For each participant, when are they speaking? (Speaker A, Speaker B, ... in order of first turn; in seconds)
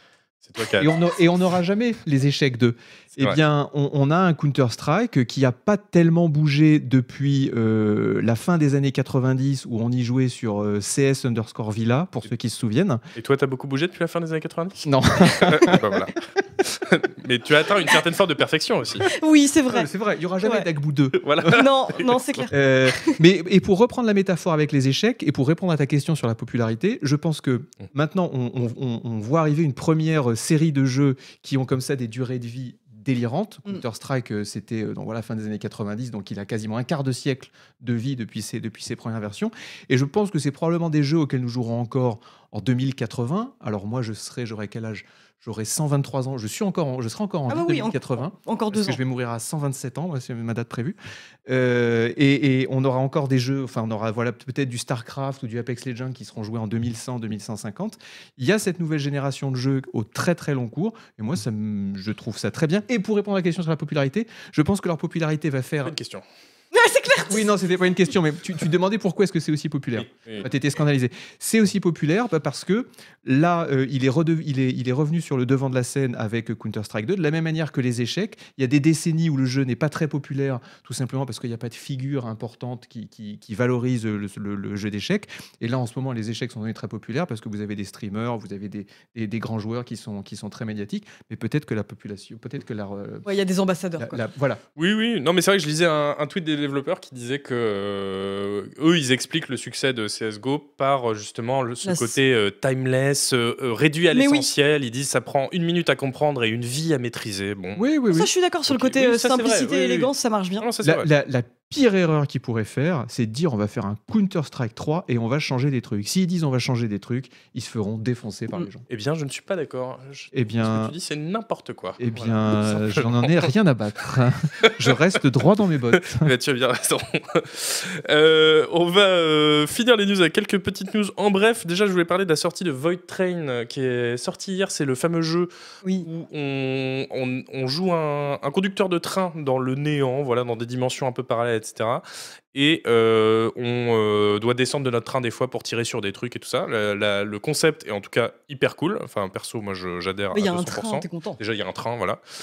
Speaker A: 0.4-1.0, 13.1-19.1, 21.1-22.5, 65.8-66.2, 70.0-70.5, 94.8-107.9, 108.7-111.1, 118.9-123.5, 124.6-125.0, 125.9-135.5, 136.0-152.2
Speaker B: 0.8-13.0, 14.8-15.9, 19.7-21.6, 22.5-51.0, 51.5-65.9, 67.3-93.3, 94.0-94.6, 107.8-108.3, 110.8-118.8, 120.3-120.9, 122.0-126.3
Speaker C: 19.1-19.9, 21.5-23.2, 47.5-49.0, 66.7-67.5, 93.2-94.2, 101.8-102.2, 104.1-104.5, 108.1-110.7, 150.3-151.4